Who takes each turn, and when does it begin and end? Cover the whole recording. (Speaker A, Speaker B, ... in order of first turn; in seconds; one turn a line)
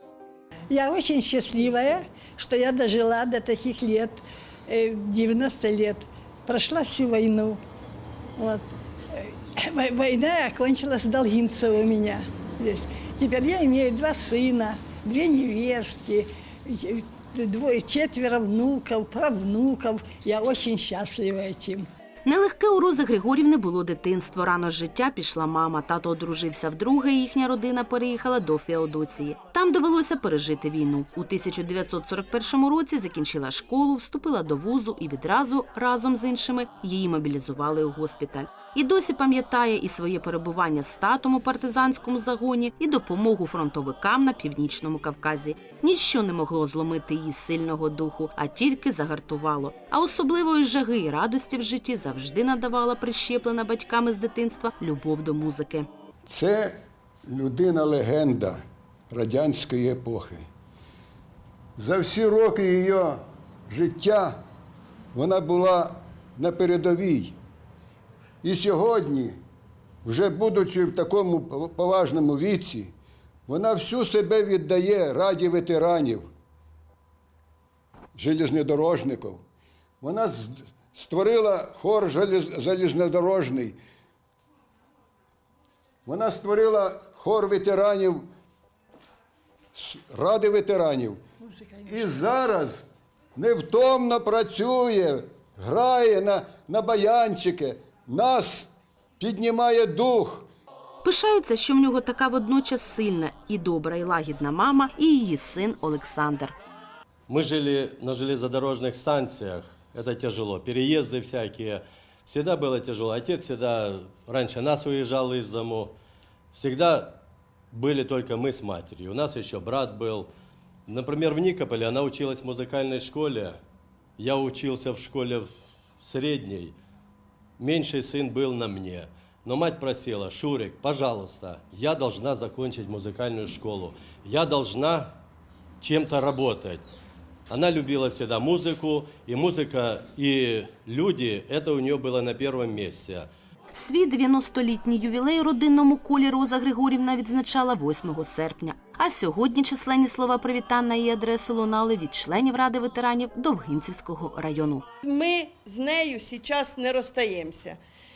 Speaker A: 0.7-7.6
Speaker A: 8.4-21.9
Speaker B: 22.2-55.9
Speaker C: 56.3-56.8
Speaker C: 57.3-58.6
Speaker C: 59.1-60.4
Speaker C: 61.8-64.3
Speaker C: 65.1-67.4
Speaker C: 68.4-69.4
Speaker C: 70.0-72.9
Speaker C: 73.5-76.3
Speaker C: 78.2-79.4
Speaker C: 80.0-83.8
Speaker C: 86.1-88.3
Speaker C: 89.8-91.2
Speaker A: 91.5-92.1
Speaker C: 91.9-92.8
Speaker C: 93.4-100.5
Speaker B: 101.0-106.5
Speaker D: 107.3-115.9
Speaker D: 116.5-117.2
Speaker D: 117.7-120.3
Speaker D: 120.9-123.6
Speaker D: 124.2-125.5
Speaker D: 126.0-126.8
Speaker D: 127.6-135.1
Speaker D: 135.8-136.9
Speaker D: 137.5-143.3
Speaker B: 143.7-154.8
Speaker E: 155.0-157.8